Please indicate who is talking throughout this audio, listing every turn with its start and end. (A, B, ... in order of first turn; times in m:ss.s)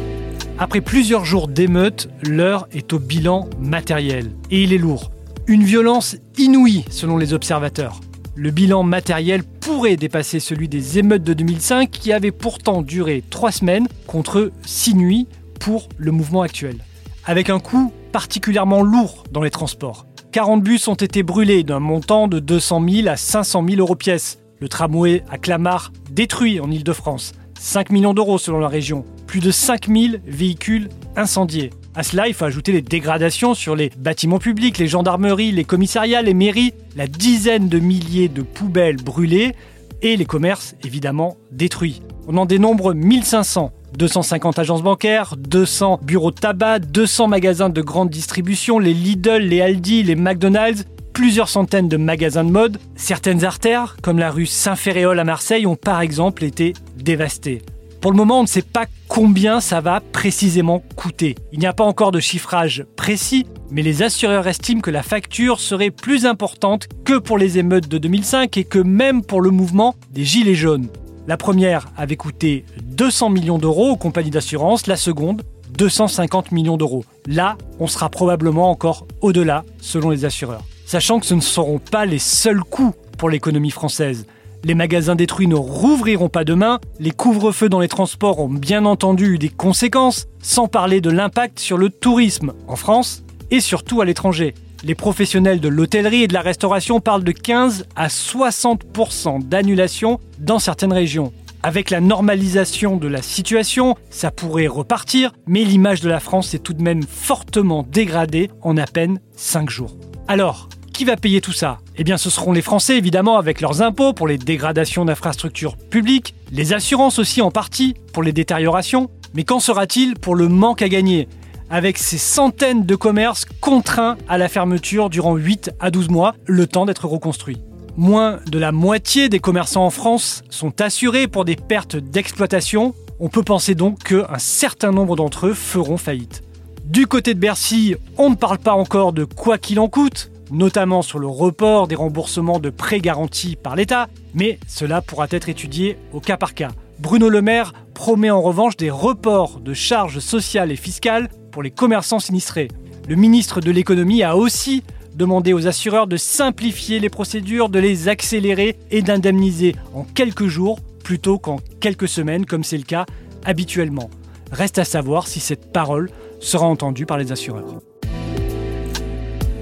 0:00.6-2:47.8 A